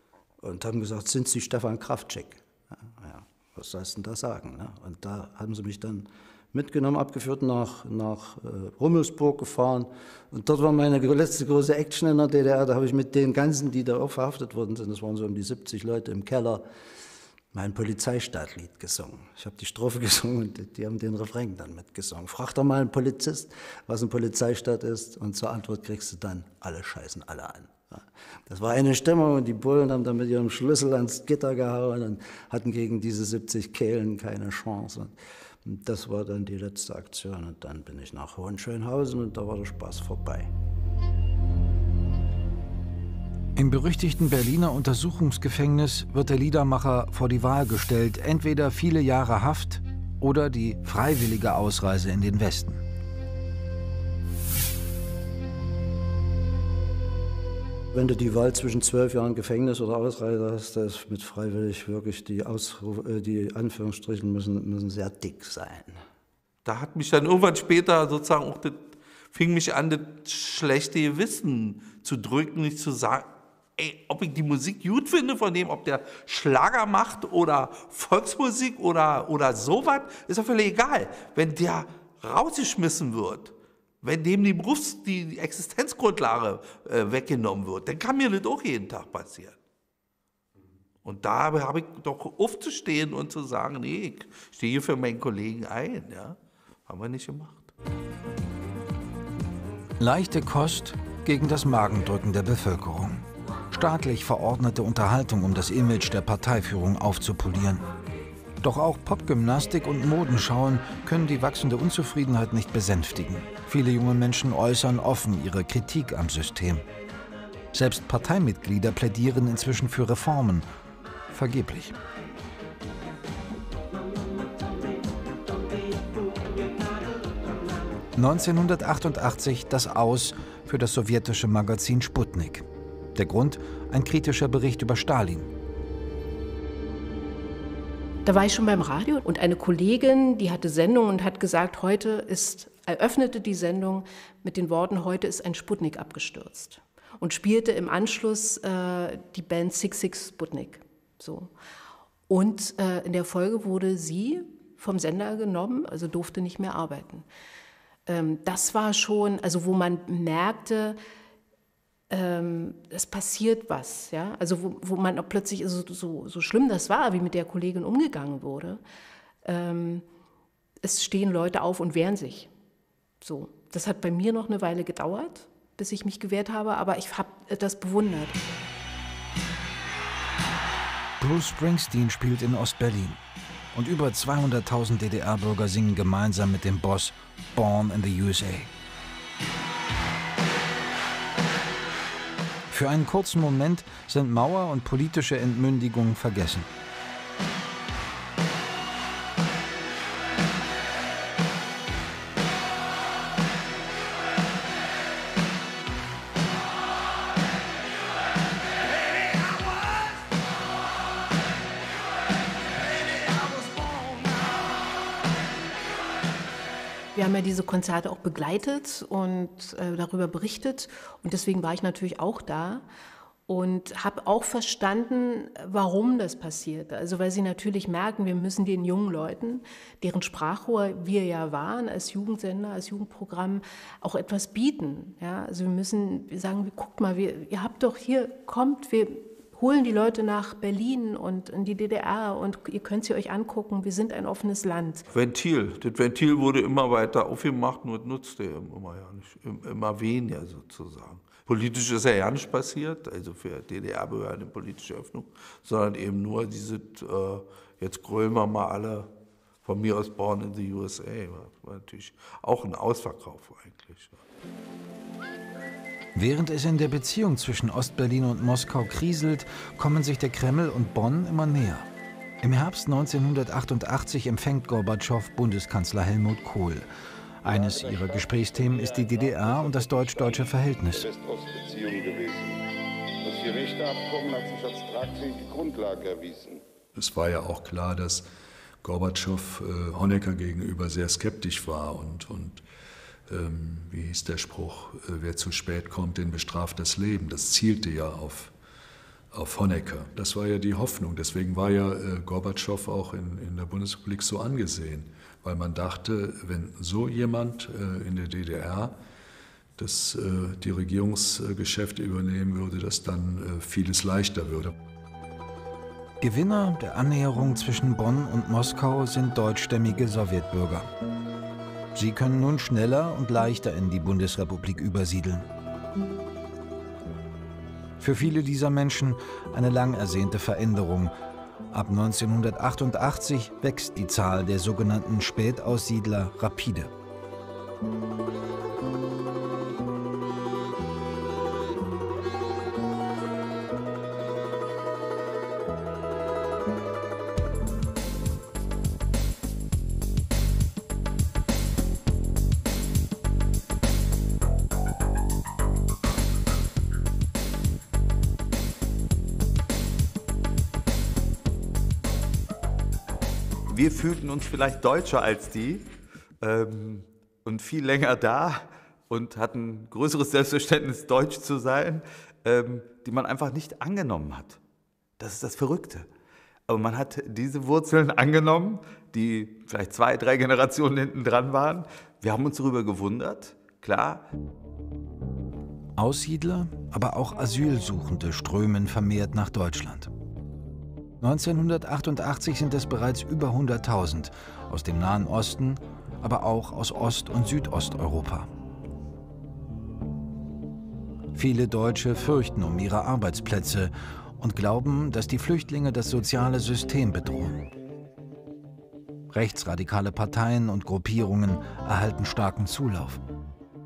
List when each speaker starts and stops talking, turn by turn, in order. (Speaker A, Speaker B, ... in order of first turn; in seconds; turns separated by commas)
Speaker A: 0.4-16.6, Speaker A: 17.5-40.5, Speaker B: 43.5-52.8, Speaker A: 57.9-66.0, Speaker C: 66.6-89.5, Speaker C: 91.0-97.7, Speaker B: 100.0-107.9, Speaker B: 108.6-116.8, Speaker B: 117.7-120.7, Speaker B: 121.3-122.0, Speaker B: 128.2-135.5, Speaker D: 138.2-151.5, Speaker D: 152.3-157.2, Speaker D: 158.1-161.0, Speaker D: 162.1-168.8, Speaker D: 169.4-170.0, Speaker D: 170.8-172.5, Speaker D: 173.2-178.4, Speaker B: 181.2-183.2, Speaker B: 183.7-188.7, Speaker B: 192.7-196.7, Speaker D: 217.1-222.8, Speaker D: 223.5-245.0, Speaker C: 245.1-259.1, Speaker C: 259.6-264.2, Speaker B: 266.1-271.9, Speaker B: 272.4-276.9, Speaker B: 277.4-281.1, Speaker E: 277.5-282.6, Speaker E: 283.2-286.6, Speaker F: 286.9-288.2, Speaker F: 288.8-292.6, Speaker F: 293.3-298.5, Speaker F: 299.3-308.9, Speaker F: 309.8-314.7, Speaker B: 316.2-320.9, Speaker B: 321.9-325.5, Speaker B: 328.0-331.1, Speaker B: 331.7-336.9, Speaker G: 363.7-365.9, Speaker G: 366.4-374.6, Speaker G: 375.2-376.1, Speaker G: 376.7-384.2, Speaker B: 386.0-390.1, Speaker B: 391.2-398.5, Speaker B: 401.3-407.6, Speaker B: 409.3-413.2